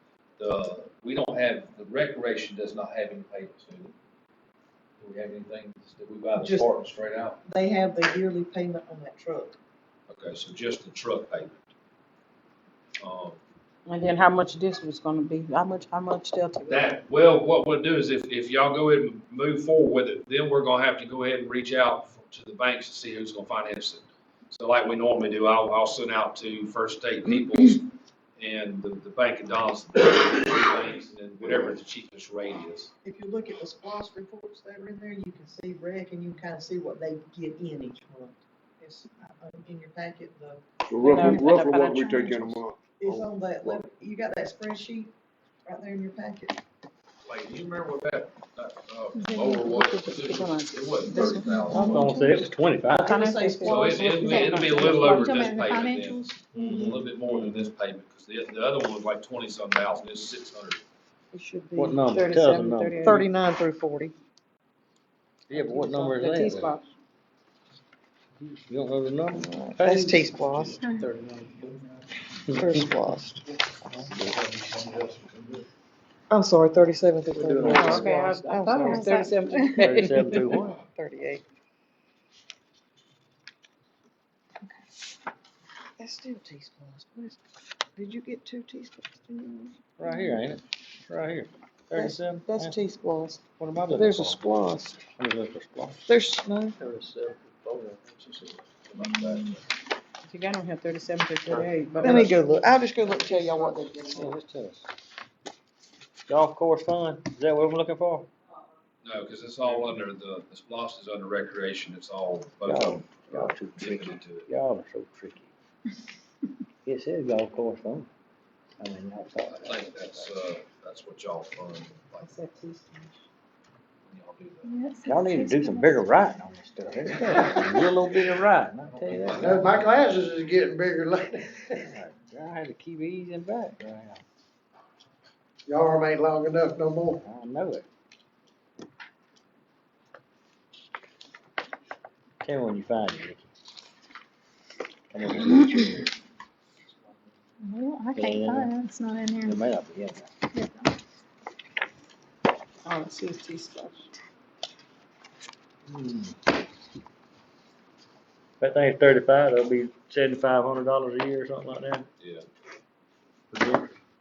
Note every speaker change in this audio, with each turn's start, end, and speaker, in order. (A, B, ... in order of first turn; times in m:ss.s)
0:00.4-0:03.9 A
0:05.0-0:07.4 A
0:06.4-0:06.7 B
0:07.4-0:09.6 B
0:10.1-0:11.6 A
0:13.0-0:13.4 A
0:13.9-0:16.9 C
0:16.7-0:32.9 A
0:31.4-0:31.8 D
0:33.0-0:41.5 B
0:40.9-0:43.8 D
0:41.0-0:42.6 C
0:43.0-0:45.1 B
0:45.7-0:46.6 B
0:47.2-0:52.1 A
0:49.2-0:49.7 E
0:49.5-0:55.2 C
0:51.0-0:52.1 B
0:51.3-0:52.3 E
0:51.7-0:53.4 F
0:52.9-0:55.5 B
0:53.6-1:00.8 A
0:54.2-0:56.4 E
0:56.6-0:57.7 F
1:01.3-1:02.0 B
1:01.8-1:03.0 F
1:02.0-1:03.2 C
1:03.0-1:04.2 B
1:05.5-1:06.7 F
1:05.5-1:06.9 C
1:08.4-1:10.3 F
1:09.3-1:10.9 B
1:12.6-1:13.4 B
1:14.8-1:15.4 A
1:16.3-1:19.7 B
1:17.3-1:18.2 F
1:17.6-1:20.6 C
1:18.8-1:19.2 E
1:19.8-1:20.8 F
1:20.3-1:21.4 B
1:26.0-1:27.4 B
1:28.0-1:29.7 B
1:30.0-1:32.8 F
1:31.9-1:35.0 B
1:33.6-1:34.4 F
1:35.2-1:36.1 F
1:36.1-1:36.8 B
1:36.8-1:37.7 F
1:37.3-1:39.6 A
1:40.2-1:42.4 C
1:42.0-1:44.3 B
1:44.1-1:44.9 F
1:46.3-1:48.3 F
1:49.0-1:54.5 A
1:52.6-1:55.5 F
1:56.8-1:58.1 F
1:58.8-2:00.3 F
1:59.5-2:02.5 A
2:02.2-2:03.1 C
2:04.0-2:04.7 A
2:04.6-2:06.2 E
2:05.0-2:09.8 F
2:08.9-2:09.8 A
2:09.3-2:11.9 G
2:11.8-2:14.2 F
2:15.7-2:17.2 G
2:17.2-2:17.8 F
2:22.4-2:23.4 F
2:25.1-2:26.1 F
2:27.6-2:29.6 E
2:28.1-2:28.8 F
2:29.4-2:30.3 F
2:32.8-2:34.1 C
2:35.9-2:36.4 F
2:38.6-2:42.1 F
2:42.2-2:42.4 A
2:43.5-2:43.9 F